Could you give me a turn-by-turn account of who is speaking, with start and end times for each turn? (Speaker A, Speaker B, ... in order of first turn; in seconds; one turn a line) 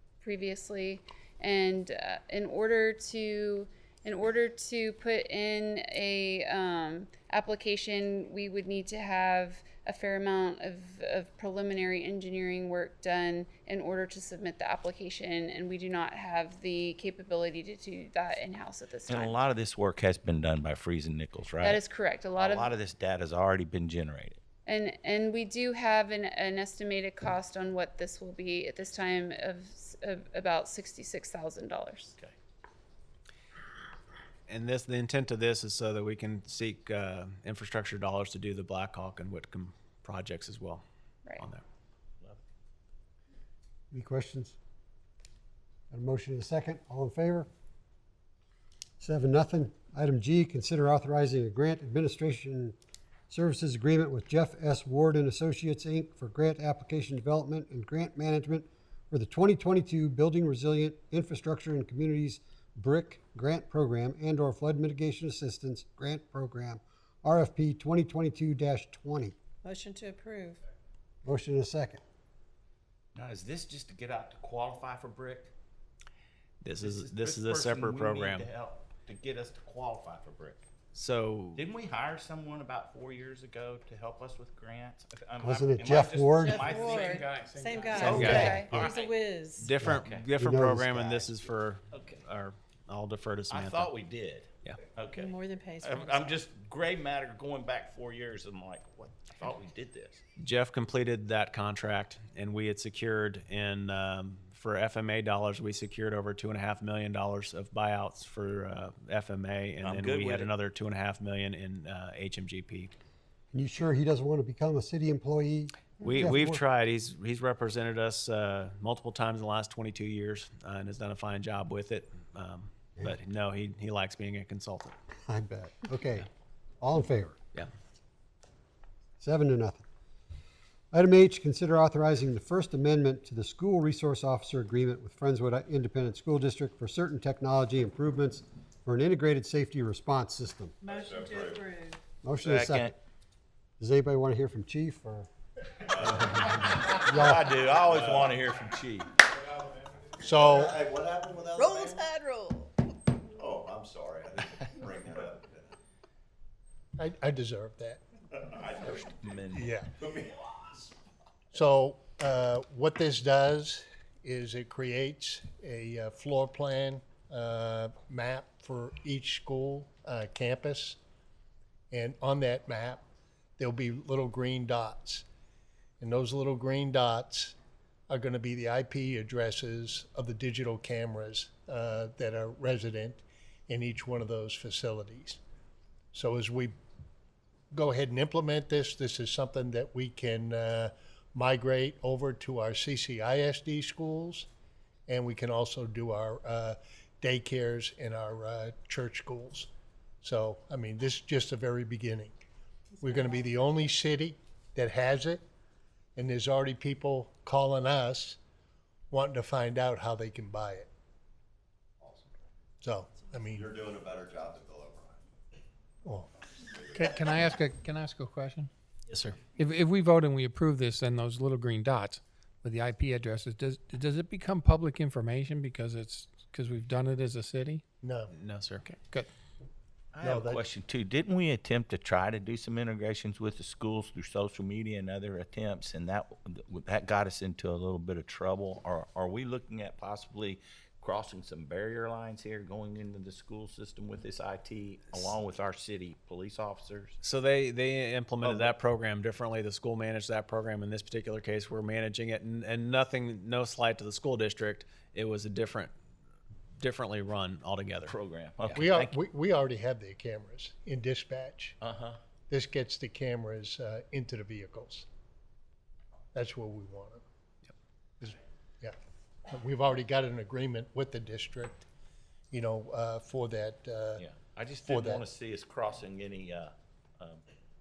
Speaker A: 0.2-19.4
Speaker B: 19.1-21.8
Speaker A: 21.6-22.7
Speaker B: 22.4-24.4
Speaker A: 24.7-32.1
Speaker C: 34.5-40.8
Speaker C: 41.4-41.6
Speaker D: 43.9-44.5
Speaker D: 45.9-47.5
Speaker D: 49.0-52.8
Speaker D: 53.3-69.3
Speaker E: 69.6-70.6
Speaker D: 71.2-72.0
Speaker B: 73.2-75.5
Speaker C: 76.6-78.5
Speaker B: 76.8-80.6
Speaker C: 80.9-81.6
Speaker B: 81.6-87.3
Speaker D: 85.4-86.6
Speaker E: 86.4-89.7
Speaker F: 86.6-88.2
Speaker B: 87.9-89.2
Speaker A: 87.9-88.7
Speaker D: 88.1-88.8
Speaker C: 88.1-88.6
Speaker C: 89.6-93.9
Speaker D: 89.8-91.3
Speaker B: 89.9-90.3
Speaker B: 91.9-92.2
Speaker B: 93.5-100.2
Speaker E: 95.1-96.5
Speaker C: 100.4-112.9
Speaker B: 109.8-110.5
Speaker D: 113.5-116.6
Speaker C: 116.0-124.9
Speaker D: 125.2-126.3
Speaker D: 126.8-127.4
Speaker D: 129.2-129.8
Speaker D: 130.9-140.8
Speaker E: 140.8-142.0
Speaker G: 140.9-141.6
Speaker D: 142.2-142.9
Speaker B: 142.4-142.9
Speaker D: 143.8-145.3
Speaker G: 145.9-146.5
Speaker D: 146.0-147.6
Speaker B: 146.6-149.1
Speaker G: 147.8-148.3
Speaker H: 150.2-150.8
Speaker G: 150.2-152.1
Speaker E: 151.5-152.8
Speaker G: 153.3-155.7
Speaker H: 157.0-158.0
Speaker B: 158.4-159.7
Speaker H: 159.5-159.9
Speaker G: 160.0-160.3
Speaker H: 161.5-171.0
Speaker H: 171.9-173.0
Speaker H: 173.6-175.2
Speaker H: 176.0-177.5
Speaker H: 178.1-185.4
Speaker H: 186.1-186.8
Speaker H: 187.7-194.5
Speaker H: 195.1-199.7
Speaker H: 200.2-202.3
Speaker H: 203.0-205.4
Speaker H: 206.2-208.4
Speaker H: 209.1-210.9
Speaker G: 212.0-212.3
Speaker H: 212.8-213.7
Speaker G: 213.5-215.2
Speaker H: 216.0-216.3
Speaker F: 216.9-218.7
Speaker C: 219.1-219.4
Speaker F: 219.4-227.8
Speaker H: 228.0-228.3
Speaker C: 228.3-228.9
Speaker F: 228.8-229.3
Speaker B: 230.1-247.2
Speaker H: 230.2-230.7
Speaker C: 247.2-255.9
Speaker B: 248.4-248.7
Speaker C: 256.8-258.1
Speaker B: 258.1-259.1
Speaker H: 258.7-261.8
Speaker B: 261.8-262.2
Speaker H: 262.5-265.1
Speaker H: 266.3-267.2
Speaker H: 268.2-268.9
Speaker H: 269.5-271.9
Speaker H: 272.5-274.2
Speaker B: 274.2-277.4
Speaker H: 274.8-275.2